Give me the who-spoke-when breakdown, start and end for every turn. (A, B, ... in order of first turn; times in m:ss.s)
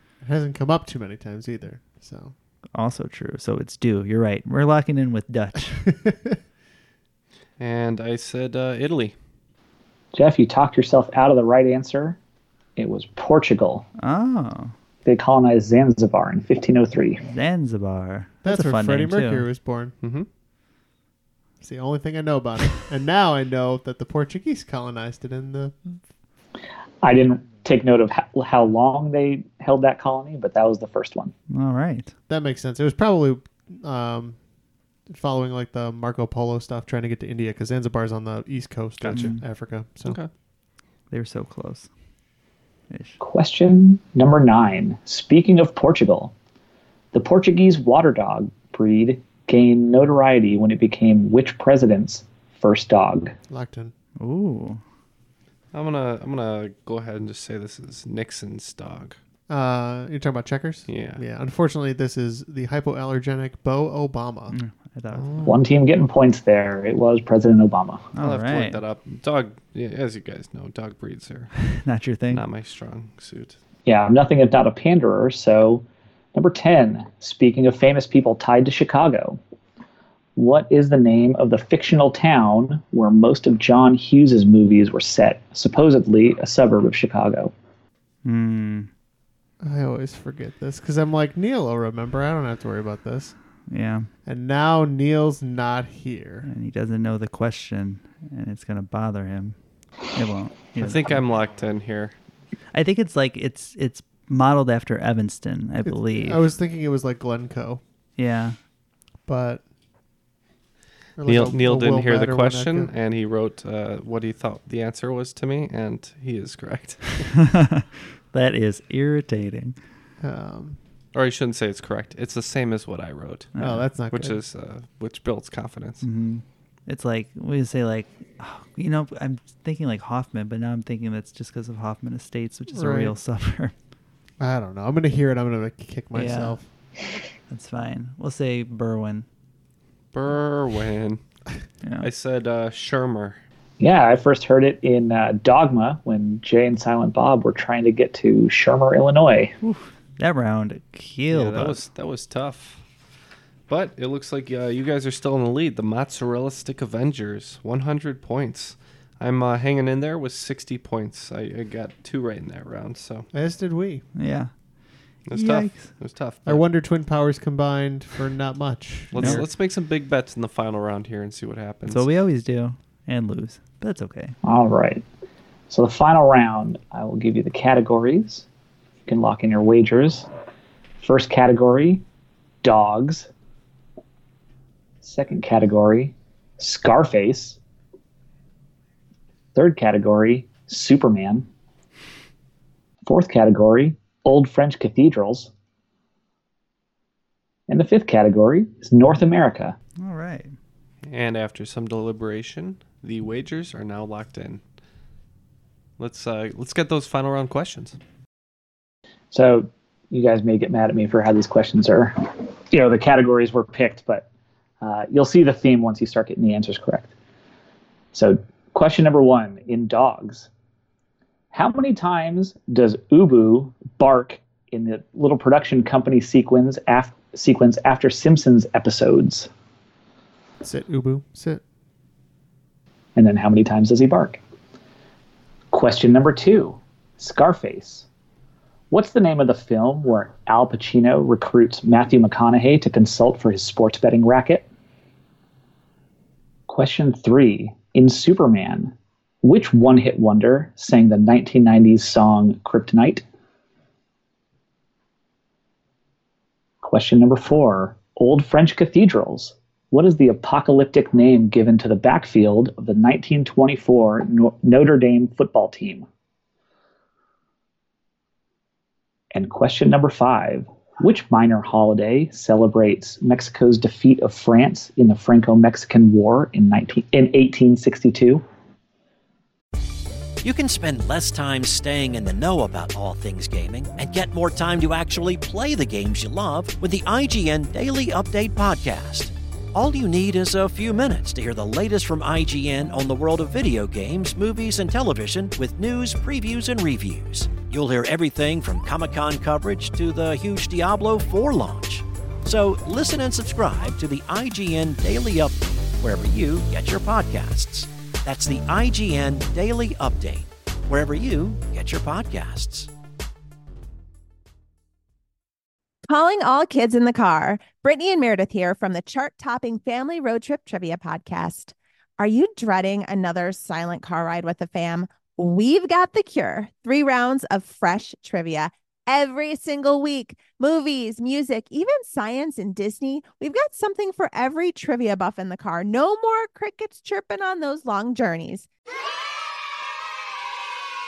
0:00.2-0:02.3 A
0:02.7-0:05.9 B
0:05.9-0:06.4 A
0:07.6-0:09.1 C
0:10.1-0:12.2 D
0:12.8-0:13.9 D
0:14.0-0:14.7 B
0:15.0-0:17.2 D
0:17.3-0:19.5 B
0:18.4-0:20.0 A
0:20.0-0:20.3 C
0:21.6-0:25.8 A
0:27.0-0:31.3 D
0:31.5-0:32.1 B
0:32.3-0:34.4 A
0:35.1-0:40.2 A
0:39.0-0:39.3 C
0:39.1-0:39.4 B
0:41.1-0:41.9 B
0:42.9-0:43.2 B
0:43.2-0:46.3 D
0:47.1-0:53.4 D
0:53.5-0:53.9 A
0:54.2-0:54.8 B
0:55.7-0:59.2 C
0:59.5-1:04.6 A
1:00.9-1:01.2 C
1:04.5-1:05.5 B
1:05.1-1:05.5 C
1:05.5-1:08.1 D
1:08.2-1:08.8 B
1:08.2-1:11.5 C
1:11.6-1:12.4 B
1:12.3-1:13.6 C
1:13.8-1:19.4 D
1:20.4-1:27.5 D
1:28.2-1:28.9 B
1:29.6-1:33.4 A
1:33.7-1:34.1 B
1:34.2-1:36.5 A
1:36.4-1:39.6 B
1:40.1-1:41.2 B
1:40.8-1:42.2 C
1:42.7-1:46.4 B
1:45.8-1:47.8 A
1:48.2-1:48.6 B
1:49.3-1:49.6 A
1:51.2-1:52.9 A
1:51.3-1:57.3 C
1:57.4-1:59.8 B
2:00.2-2:00.8 A
2:01.2-2:03.5 C
2:03.6-2:03.9 B
2:03.6-2:04.4 A
2:04.1-2:06.0 C
2:06.0-2:13.7 B
2:12.7-2:13.2 A
2:14.4-2:16.6 A
2:16.1-2:16.6 B
2:17.5-2:19.3 B
2:20.1-2:21.2 C
2:21.8-2:22.1 B
2:22.0-2:23.4 C
2:23.8-2:29.6 D
2:29.6-2:31.9 B
2:31.3-2:32.8 C
2:33.7-2:43.3 C
2:43.3-2:44.0 A
2:44.2-2:44.5 B
2:45.3-2:46.6 C
2:45.3-2:45.9 B
2:46.4-2:49.4 A
2:49.1-2:52.0 C
2:49.2-2:49.5 B
2:51.9-2:54.4 B
2:54.4-2:55.0 D
2:55.7-2:58.5 D
2:59.1-3:00.3 D
3:01.0-3:02.0 D
3:02.6-3:03.3 D
3:05.0-3:07.6 D
3:09.6-3:11.5 D
3:13.1-3:15.5 D
3:17.7-3:19.8 D
3:20.0-3:20.6 B
3:21.1-3:24.6 C
3:26.0-3:28.0 C
3:29.3-3:34.3 D
3:34.8-3:37.1 D
3:38.1-3:40.5 D
3:41.5-3:49.5 D
3:50.6-3:51.6 A
3:53.2-3:54.4 D
3:55.7-3:58.1 D
3:58.9-4:04.7 D
4:06.7-4:13.2 D
4:16.8-4:26.1 D
4:29.3-4:38.4 D
4:40.4-5:12.9 E
5:16.1-5:38.7 F